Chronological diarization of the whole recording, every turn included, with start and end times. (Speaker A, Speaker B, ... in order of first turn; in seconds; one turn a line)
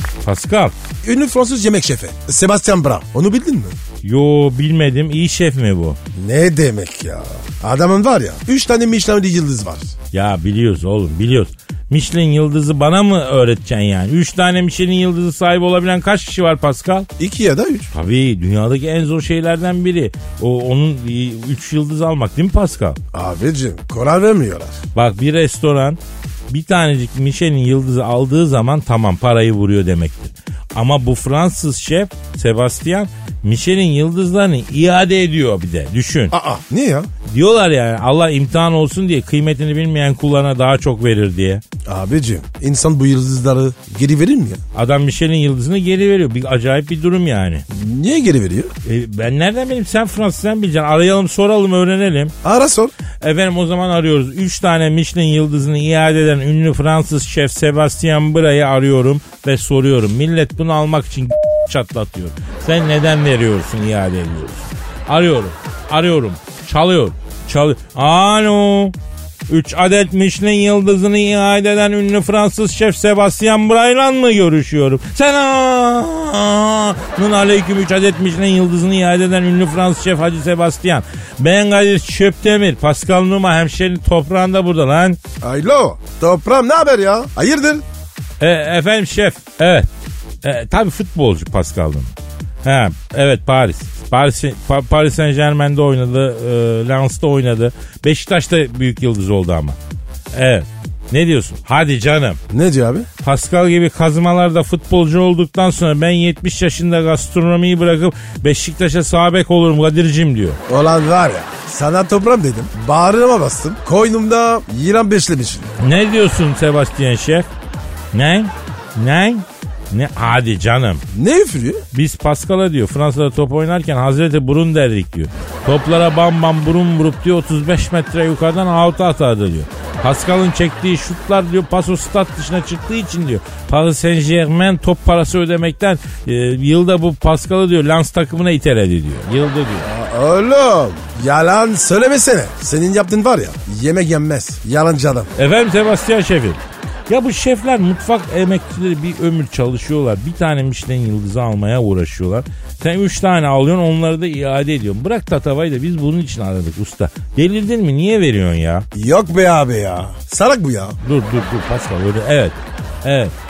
Speaker A: 0.2-0.7
Speaker B: 1.0-3.8
Speaker A: 4.0-6.0
Speaker B: 6.1-9.9
Speaker A: 10.1-17.1
Speaker B: 17.2-17.9
Speaker A: 17.9-23.0
Speaker B: 23.1-24.8
Speaker A: 24.9-36.3
Speaker B: 36.3-37.1
Speaker A: 37.3-41.6
Speaker B: 41.9-44.6
Speaker A: 44.7-47.6
Speaker B: 47.7-48.7
Speaker A: 48.8-52.3
Speaker B: 52.4-52.9
Speaker A: 53.2-68.9
Speaker A: 69.5-85.2
Speaker B: 85.4-87.8
Speaker A: 88.4-89.9
Speaker A: 90.4-92.1
Speaker A: 92.6-99.8
Speaker A: 100.3-102.4
Speaker B: 102.5-103.1
Speaker A: 103.2-110.6
Speaker B: 110.7-115.7
Speaker A: 115.8-117.5
Speaker A: 118.1-121.0
Speaker B: 121.1-121.8
Speaker A: 121.9-139.9
Speaker B: 139.8-145.3
Speaker A: 145.3-158.8
Speaker B: 158.9-161.0
Speaker A: 161.0-163.3